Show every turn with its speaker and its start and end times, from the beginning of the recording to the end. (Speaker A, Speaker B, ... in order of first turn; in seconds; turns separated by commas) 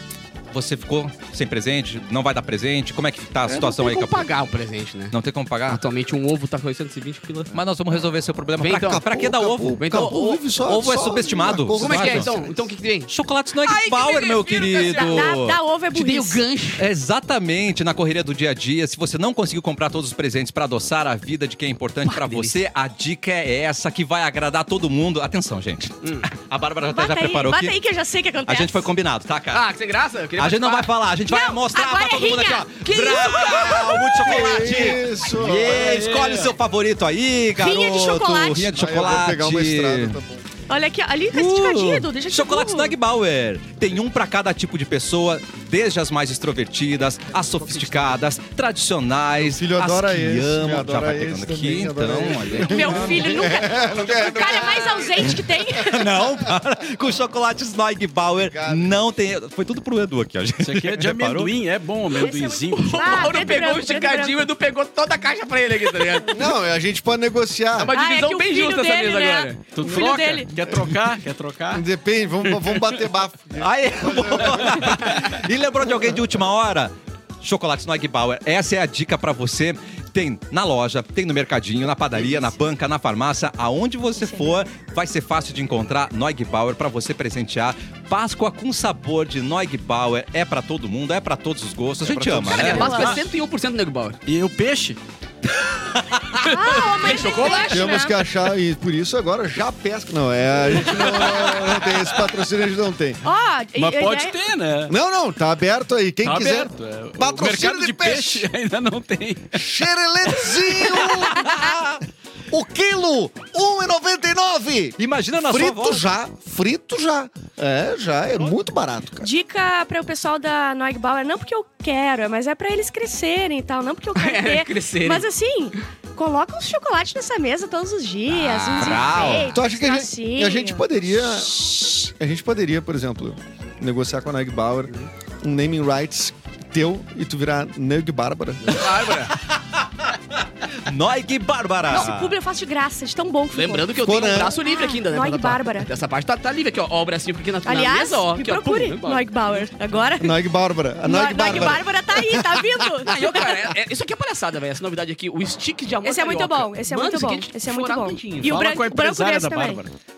Speaker A: 0.5-4.3, Speaker B: 3.5-5.1, Speaker A: 5.1-5.8, Speaker B: 5.7-7.6, Speaker A: 7.5-9.8, Speaker B: 8.6-9.1, Speaker C: 8.9-12.7, Speaker B: 9.8-10.4, Speaker A: 10.5-12.3, Speaker B: 11.7-13.1, Speaker A: 13.1-15.6, Speaker B: 13.6-15.4, Speaker D: 14.9-16.4, Speaker B: 15.9-16.9, Speaker A: 16.8-27.8, Speaker B: 22.0-22.6, Speaker B: 26.0-26.3, Speaker D: 26.9-28.9, Speaker A: 28.5-29.6, Speaker B: 29.5-31.0, Speaker A: 30.4-40.2, Speaker D: 31.2-34.8, Speaker C: 34.2-36.1, Speaker E: 35.6-36.5, Speaker D: 37.5-38.7, Speaker C: 38.5-40.4, Speaker D: 40.7-42.9, Speaker A: 41.3-53.5, Speaker B: 47.6-48.1, Speaker C: 49.4-55.6, Speaker D: 52.6-56.1, Speaker A: 55.8-61.5, Speaker C: 58.4-59.0, Speaker E: 60.6-63.4, Speaker D: 62.1-64.4, Speaker B: 62.9-66.4, Speaker C: 66.3-67.9, Speaker B: 67.8-69.7, Speaker D: 67.9-70.5, Speaker E: 69.7-71.8, Speaker C: 69.8-70.1, Speaker C: 70.6-71.0, Speaker C: 71.7-75.3, Speaker A: 73.6-93.1, Speaker D: 84.2-84.5, Speaker B: 92.2-94.2, Speaker D: 92.5-93.2, Speaker E: 92.6-93.2, Speaker E: 94.2-95.0, Speaker A: 95.8-96.3, Speaker D: 96.4-98.2, Speaker B: 96.7-97.9, Speaker C: 97.7-103.2, Speaker E: 100.8-102.2, Speaker D: 103.2-104.3, Speaker E: 103.7-104.9, Speaker C: 104.9-108.5, Speaker E: 106.2-109.6, Speaker C: 109.5-111.8, Speaker A: 110.8-112.0, Speaker C: 112.5-119.3, Speaker A: 115.0-116.0, Speaker D: 119.2-130.8, Speaker B: 124.2-125.3, Speaker B: 128.3-129.4, Speaker A: 128.8-129.5, Speaker C: 129.5-138.9, Speaker D: 131.6-131.9, Speaker B: 138.6-139.3, Speaker A: 139.2-142.3, Speaker D: 141.9-145.9, Speaker B: 143.5-149.6, Speaker C: 144.0-144.6, Speaker D: 147.6-150.4, Speaker C: 150.2-153.4, Speaker D: 151.0-153.6, Speaker B: 153.1-158.6, Speaker D: 156.0-159.8, Speaker E: 158.4-159.9